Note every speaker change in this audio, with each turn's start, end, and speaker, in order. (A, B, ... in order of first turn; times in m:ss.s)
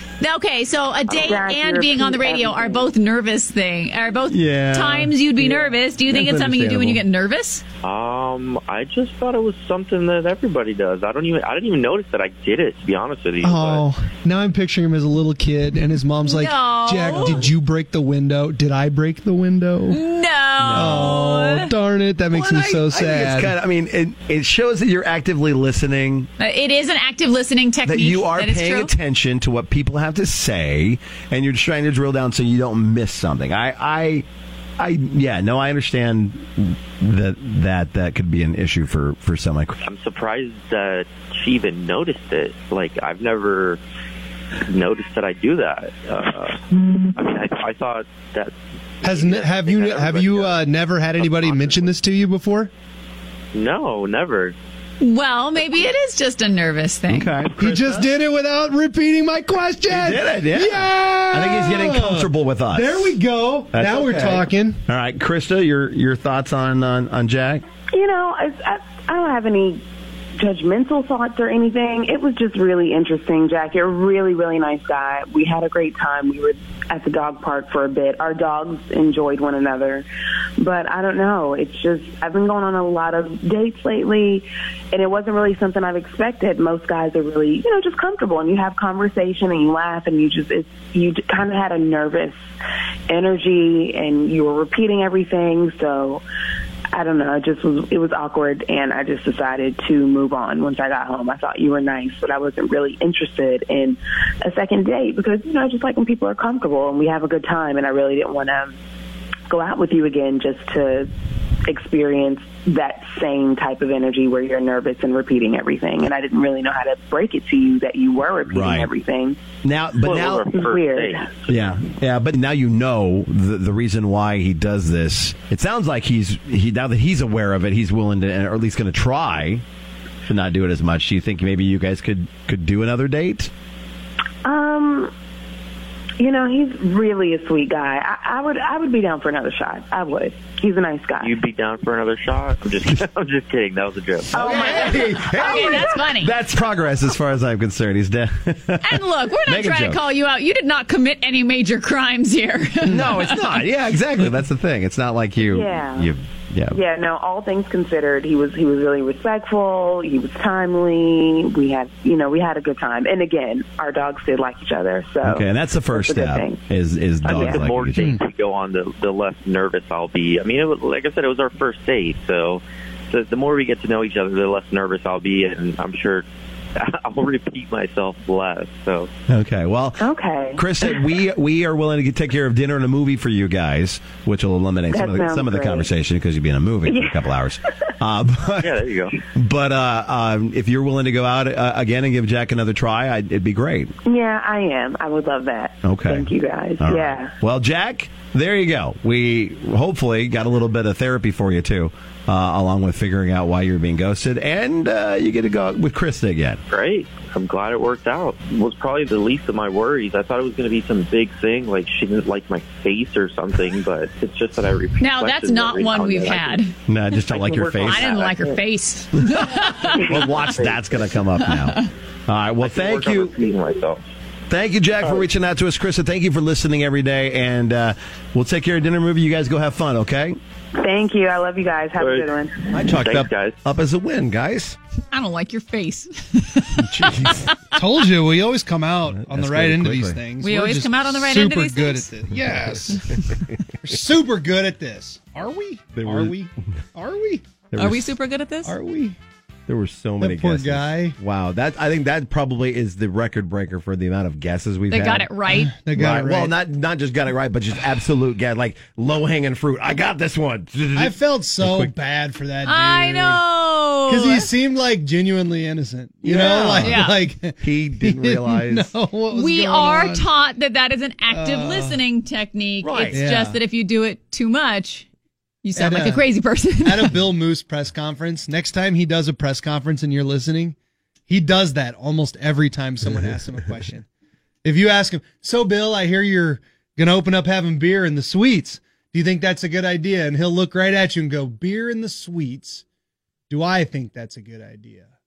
0:00.2-0:07.6 A
0:01.1-0:01.4 B
0:01.1-0:02.9 C
0:04.3-0:05.1 D
0:05.5-0:05.8 C
0:06.1-0:07.0 D
0:07.8-0:13.9 B
0:13.4-0:20.0 E
0:16.2-0:17.5 A
0:17.1-0:17.4 D
0:19.9-0:21.7 A
0:20.6-0:21.3 D
0:20.7-0:23.5 E
0:22.3-0:26.3 D
0:26.4-0:28.9 A
0:27.9-0:34.3 D
0:34.8-0:39.8 D
0:39.8-0:43.8 B
0:44.7-0:50.6 B
0:49.0-0:52.7 E
0:51.2-0:51.9 B
0:53.5-0:54.6 B
0:55.0-0:57.5 A
0:57.1-0:58.1 D
0:57.5-1:04.8 E
0:59.9-1:03.2 D
1:03.7-1:07.6 D
1:07.9-1:09.8 C
1:10.4-1:20.1 C
1:20.6-1:32.4 C
1:33.1-1:36.2 C
1:36.9-1:48.8 C
1:49.5-1:51.1 C
1:51.7-1:59.4 C
1:58.5-1:58.9 D
1:59.6-2:00.5 D
2:00.0-2:01.8 B
2:00.5-2:01.3 C
2:01.5-2:09.6 D
2:10.3-2:13.5 D
2:14.4-2:15.1 C
2:16.2-2:21.3 C
2:21.2-2:24.5 B
2:24.3-2:30.0 D
2:24.3-2:26.0 C
2:24.5-2:26.3 A
2:28.8-2:33.6 A
2:32.8-2:36.8 D
2:35.4-2:36.1 C
2:36.7-2:46.6 C
2:45.2-2:48.2 D
2:47.2-2:56.2 B
2:56.8-2:59.1 B
2:59.3-3:00.0 D
3:00.0-3:01.0 C
3:00.6-3:13.9 D
3:04.9-3:05.9 C
3:06.9-3:07.4 C
3:08.6-3:09.2 B
3:14.0-3:17.3 C
3:15.8-3:26.6 D
3:26.7-3:36.6 B
3:35.0-3:36.8 A
3:36.9-3:38.2 D
3:37.3-3:38.6 B
3:37.8-3:40.0 A
3:39.4-3:43.4 D
3:39.8-3:41.1 B
3:41.4-3:41.9 A
3:42.6-3:44.0 B
3:44.5-3:50.4 D
3:50.8-3:52.6 C
3:52.0-3:52.3 B
3:52.7-3:54.8 D
3:53.0-3:53.6 B
3:55.1-3:57.8 A
3:56.8-3:57.5 D
3:57.8-4:07.7 E
3:59.1-4:00.2 D
4:00.4-4:02.1 A
4:06.0-4:06.4 D
4:07.7-4:08.1 D
4:07.7-4:08.8 A
4:08.6-4:09.2 E
4:09.7-4:15.3 D
4:10.2-4:11.2 E
4:14.9-4:15.8 A
4:15.6-4:16.5 E
4:16.0-4:21.9 D
4:21.0-4:23.4 E
4:22.6-4:24.5 A
4:24.1-4:30.3 E
4:26.2-4:27.1 D
4:26.8-4:27.2 A
4:27.6-4:28.9 D
4:29.3-4:35.1 A
4:31.3-4:32.0 E
4:32.8-4:33.2 D
4:33.1-4:33.6 E
4:35.6-4:37.2 A
4:35.8-4:36.3 E
4:36.8-4:40.8 E
4:41.3-4:44.1 E
4:43.1-4:43.3 D
4:44.6-4:52.8 E
4:53.5-4:55.1 E